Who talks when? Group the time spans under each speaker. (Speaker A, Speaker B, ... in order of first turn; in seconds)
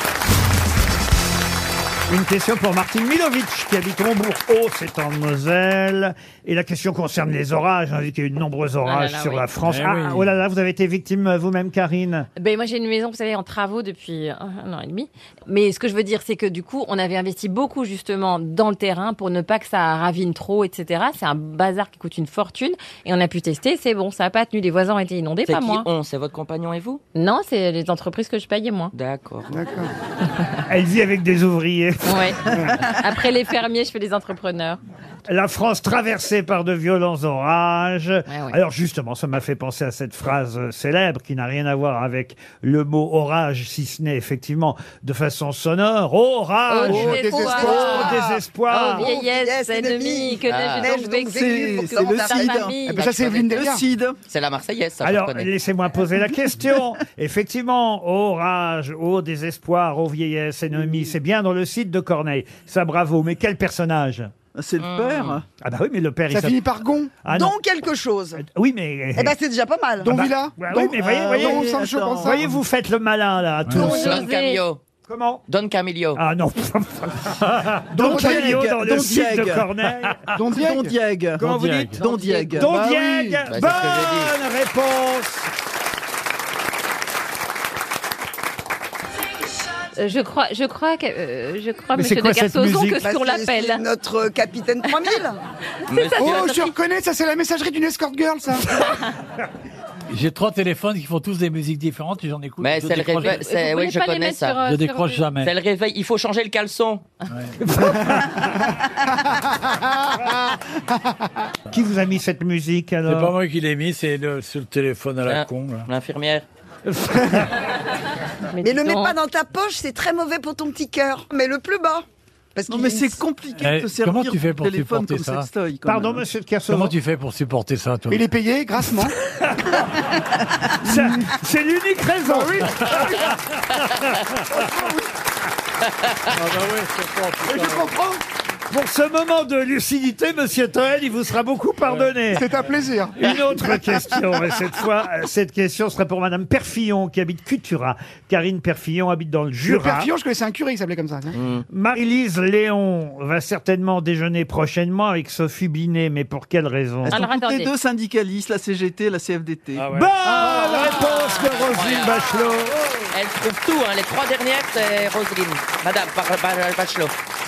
Speaker A: 2.1-12.3, 30.7-32.7, 35.3-49.1, 55.0-64.3, 65.6-66.7, 67.2-67.6, 68.4-69.3, 70.1-71.7, 72.2-74.3, 75.0-75.4, 76.2-80.2, 81.4-85.5, 91.9-93.0, 107.6-108.7, 111.7-113.3, 117.0-117.4, 125.8-127.0, 129.3-134.9, 138.7-142.5, 143.2-150.1, 151.7-157.2, 159.8-162.8
Speaker B: 8.8-9.5, 12.4-25.9, 27.1-28.9, 32.0-32.4, 32.9-34.8, 38.3-38.6, 46.7-53.1, 73.8-74.6, 82.2-82.5, 90.0-93.8, 95.9-96.7, 103.2-105.3, 118.5-119.2, 157.1-157.7, 160.2-161.4
Speaker C: 9.6-10.3, 77.5-77.8, 81.4-82.0, 100.1-103.4, 104.6-105.5, 113.1-115.9, 123.6-125.5, 126.7-128.2, 136.3-137.9, 141.8-142.1, 159.8-160.2
Speaker D: 25.5-27.0, 28.9-29.6, 50.5-50.9, 53.0-53.6, 54.3-55.5, 64.8-65.4, 73.8-74.8, 75.5-76.2, 83.5-84.3, 95.9-96.5, 102.6-104.6, 105.4-107.0, 115.2-116.5, 151.4-151.7, 160.7-162.6, 163.1-167.2
Speaker E: 29.5-29.9, 47.1-48.2, 52.9-53.9, 66.3-67.1, 70.0-72.5, 77.9-78.8, 80.3-81.0, 82.6-83.4, 96.2-98.8, 109.4-110.3, 128.1-129.2, 130.8-131.1, 132.2-133.3, 134.6-135.1, 137.5-138.2, 142.3-144.0, 149.6-151.4
Speaker F: 47.0-52.7, 67.3-68.4, 69.2-70.2, 93.0-95.4, 118.6-123.2
Speaker G: 51.3-54.2, 64.5-65.4, 71.2-72.5, 78.0-79.7, 80.5-82.7, 122.7-126.2, 157.1-159.8